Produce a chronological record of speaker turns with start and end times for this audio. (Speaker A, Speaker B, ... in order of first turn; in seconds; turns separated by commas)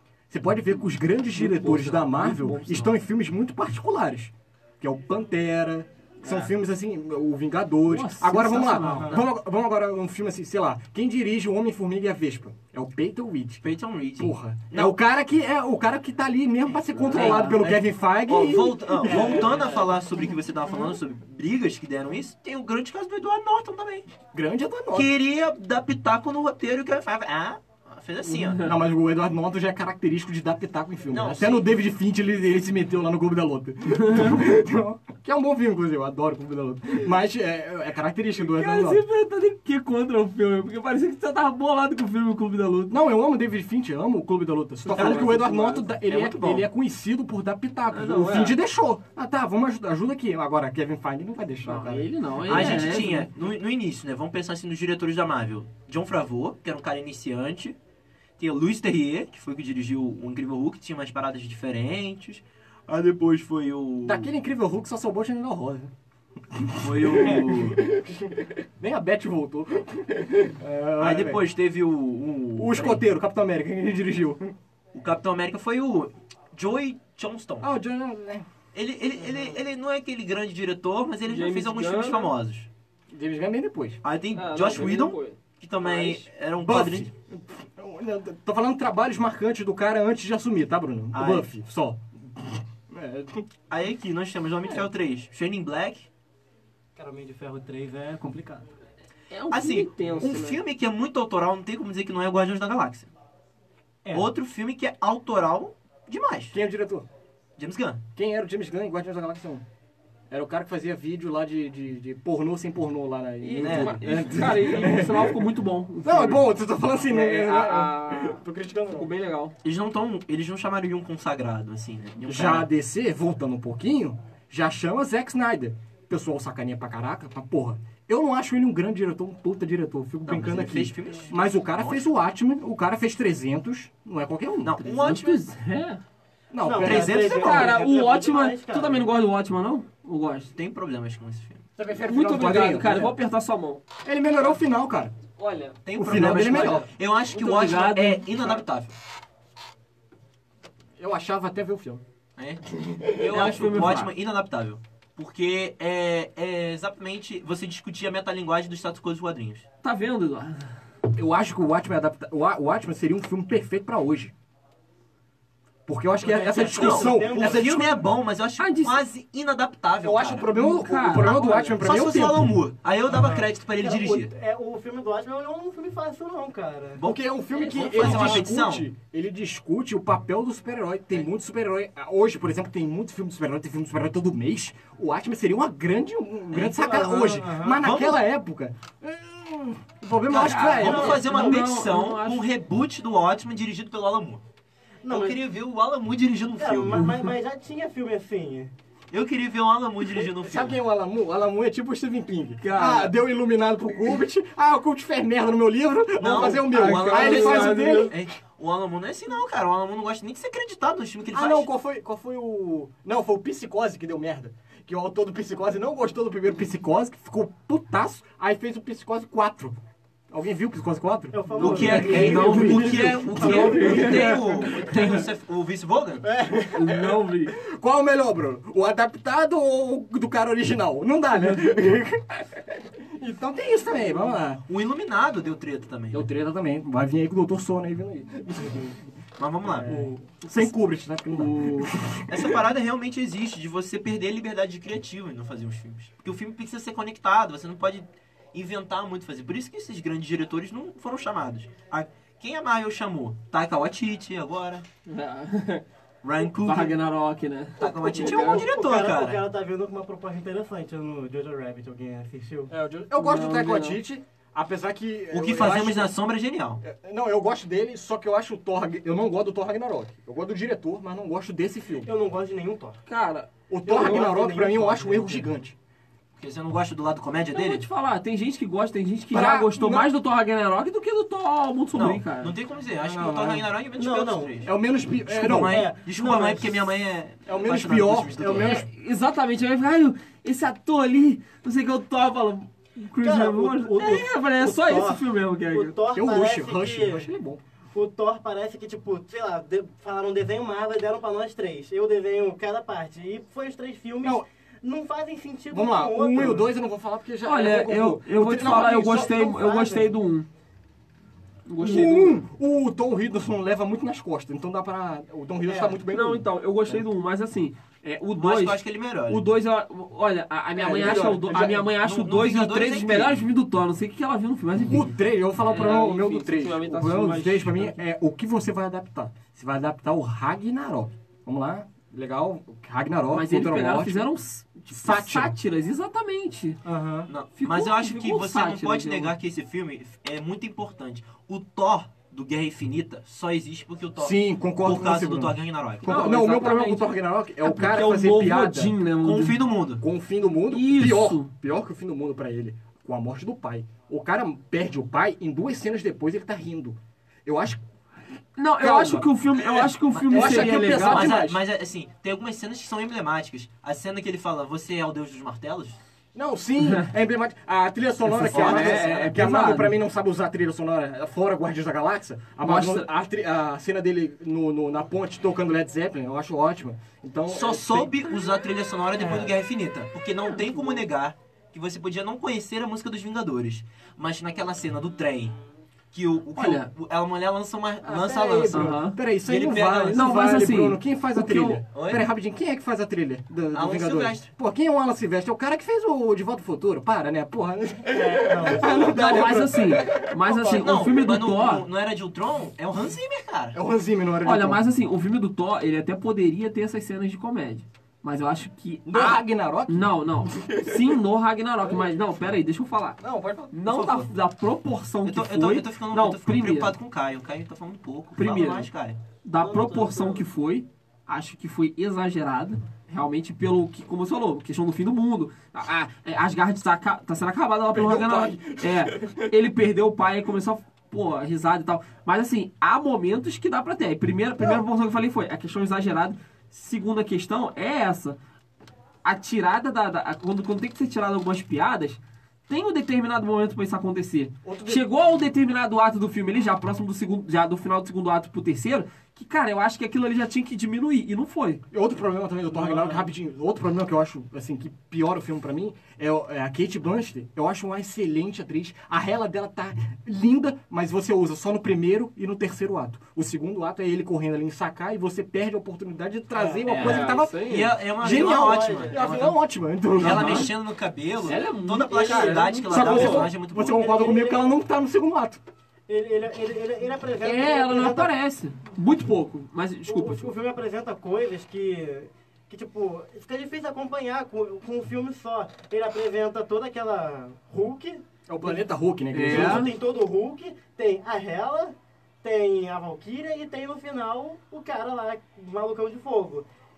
Speaker A: 0.3-13.7, Speaker B: 1.3-2.9, Speaker B: 6.2-6.5, Speaker B: 7.8-9.2, Speaker C: 8.8-9.1, Speaker D: 13.6-14.9, Speaker A: 14.2-19.5, Speaker D: 17.0-24.1, Speaker B: 17.1-17.6, Speaker C: 19.1-19.9, Speaker A: 24.3-25.1, Speaker D: 24.9-28.7, Speaker B: 28.2-28.7, Speaker A: 28.6-39.0, Speaker D: 31.1-31.7, Speaker B: 33.9-34.4, Speaker B: 38.4-42.9, Speaker A: 42.9-53.0, Speaker B: 44.8-45.9, Speaker D: 45.0-45.3, Speaker D: 46.0-46.7, Speaker B: 47.9-48.6, Speaker B: 51.6-53.3, Speaker D: 52.5-57.8, Speaker D: 58.4-64.3, Speaker A: 64.0-65.9, Speaker A: 66.5-71.4, Speaker D: 66.8-67.8, Speaker D: 71.0-73.0, Speaker A: 72.6-74.5, Speaker D: 74.9-77.7, Speaker A: 77.6-78.5, Speaker D: 78.7-82.7, Speaker B: 81.2-82.3, Speaker A: 83.1-84.0, Speaker D: 84.0-87.1, Speaker B: 84.3-86.2, Speaker A: 86.6-93.5, Speaker D: 91.1-91.5, Speaker D: 93.7-96.1, Speaker C: 97.0-98.7, Speaker B: 99.3-100.6, Speaker D: 99.5-103.1, Speaker D: 104.1-106.5, Speaker A: 106.5-107.0, Speaker D: 107.6-108.0, Speaker A: 108.2-109.6, Speaker A: 110.3-115.5, Speaker B: 113.4-116.4, Speaker D: 113.6-114.0, Speaker A: 116.0-119.1, Speaker B: 117.0-119.5, Speaker D: 119.6-122.7, Speaker A: 122.2-134.9, Speaker D: 130.2-132.0, Speaker D: 134.6-135.4, Speaker B: 134.9-136.0, Speaker A: 136.5-137.7, Speaker C: 136.6-139.1, Speaker D: 136.8-137.7, Speaker B: 137.3-140.5, Speaker D: 140.5-141.6, Speaker A: 141.8-143.2, Speaker B: 142.0-143.8, Speaker A: 144.0-145.1, Speaker B: 145.4-145.8, Speaker D: 145.8-148.9, Speaker A: 145.9-146.9, Speaker B: 146.4-146.8, Speaker B: 147.3-148.5, Speaker A: 151.0-152.0, Speaker A: 152.7-153.3, Speaker D: 153.1-159.7, Speaker B: 153.2-154.1, Speaker B: 159.8-160.7, Speaker A: 161.1-164.3, Speaker A: 165.9-168.0, Speaker C: 166.2-167.7, Speaker D: 166.6-170.5, Speaker B: 168.6-169.0, Speaker A: 170.0-172.5, Speaker B: 170.5-171.8, Speaker D: 171.8-174.3, Speaker C: 173.1-177.0, Speaker D: 176.9-178.9, Speaker A: 177.0-191.2, Speaker B: 177.5-178.4, Speaker C: 186.8-187.8, Speaker D: 187.8-188.2, Speaker D: 190.3-194.4, Speaker B: 190.4-192.5, Speaker C: 190.8-191.6, Speaker C: 195.0-195.4, Speaker D: 195.1-197.2, Speaker C: 196.6-198.7, Speaker D: 199.1-200.8, Speaker A: 200.4-208.2, Speaker B: 202.6-203.1, Speaker D: 206.2-211.7, Speaker B: 206.4-208.1, Speaker A: 211.3-219.8, Speaker A: 220.3-225.2, Speaker C: 221.3-222.5, Speaker D: 221.6-226.2, Speaker B: 221.6-224.4, Speaker C: 223.4-224.2, Speaker A: 226.2-234.6, Speaker B: 226.7-227.5, Speaker D: 234.7-236.2, Speaker A: 236.1-239.1, Speaker D: 239.4-240.1, Speaker A: 239.6-242.6, Speaker B: 240.4-240.7, Speaker B: 241.3-241.9, Speaker D: 242.3-254.8, Speaker B: 255.1-255.8, Speaker D: 256.2-257.0, Speaker B: 256.4-258.7, Speaker D: 257.8-259.4, Speaker C: 257.8-262.7, Speaker A: 262.7-266.1, Speaker B: 263.1-264.0, Speaker D: 265.3-266.8, Speaker A: 266.8-272.1, Speaker C: 272.0-273.0, Speaker B: 273.1-274.2, Speaker A: 273.7-275.8, Speaker C: 273.8-275.5, Speaker D: 276.4-277.9, Speaker B: 277.5-282.5, Speaker A: 279.3-280.1, Speaker D: 281.9-284.7, Speaker A: 283.0-283.7, Speaker C: 284.0-284.6, Speaker A: 284.6-285.8, Speaker D: 285.3-288.9, Speaker C: 285.6-286.7, Speaker A: 287.4-288.8, Speaker B: 288.6-295.9, Speaker C: 293.2-297.3, Speaker A: 296.1-297.6, Speaker C: 297.9-306.6, Speaker A: 304.2-304.5, Speaker A: 305.7-309.4, Speaker B: 307.4-310.5, Speaker C: 308.6-310.1, Speaker B: 311.7-312.4, Speaker A: 311.8-317.0, Speaker C: 315.6-316.0, Speaker B: 316.1-328.0, Speaker D: 318.3-319.4, Speaker A: 320.8-321.9, Speaker D: 321.9-323.4, Speaker A: 324.8-334.3, Speaker B: 333.3-336.8, Speaker A: 334.9-335.5, Speaker A: 336.8-337.3, Speaker D: 337.3-346.2, Speaker B: 337.6-339.3, Speaker A: 344.2-348.9, Speaker B: 346.1-349.6, Speaker D: 349.2-350.0, Speaker A: 350.0-357.8, Speaker B: 350.7-351.5, Speaker B: 358.6-361.4, Speaker A: 358.8-361.6, Speaker D: 360.1-366.0, Speaker A: 366.3-378.3, Speaker B: 368.3-369.9, Speaker D: 368.4-369.3, Speaker B: 372.6-373.1, Speaker D: 377.5-385.6, Speaker C: 379.2-379.5, Speaker B: 380.4-381.1, Speaker D: 386.1-390.2, Speaker B: 386.5-386.9, Speaker A: 388.0-401.1, Speaker B: 388.7-389.2, Speaker B: 390.1-391.8, Speaker D: 391.9-392.2, Speaker D: 393.7-394.5, Speaker C: 398.1-399.1, Speaker B: 398.8-401.8, Speaker D: 400.6-403.8, Speaker A: 403.7-404.8, Speaker B: 404.4-413.2, Speaker A: 409.1-411.2, Speaker A: 413.2-414.2, Speaker B: 413.7-416.9, Speaker D: 413.9-414.2, Speaker D: 415.2-419.2, Speaker B: 418.3-418.9, Speaker B: 419.4-438.4, Speaker C: 419.6-420.4, Speaker A: 427.9-429.5, Speaker B: 439.2-451.8, Speaker A: 444.6-445.1, Speaker A: 451.9-470.7, Speaker B: 452.7-453.2, Speaker C: 466.5-466.9, Speaker B: 466.8-467.9, Speaker D: 466.9-469.6, Speaker C: 468.2-469.2, Speaker B: 470.2-470.7, Speaker D: 470.2-474.0, Speaker B: 471.4-473.5, Speaker C: 472.1-473.0, Speaker A: 472.9-475.6, Speaker C: 473.7-474.7, Speaker C: 476.1-478.3, Speaker B: 477.4-480.5, Speaker C: 480.1-488.8, Speaker A: 488.5-489.9, Speaker B: 489.3-489.9, Speaker C: 489.4-496.7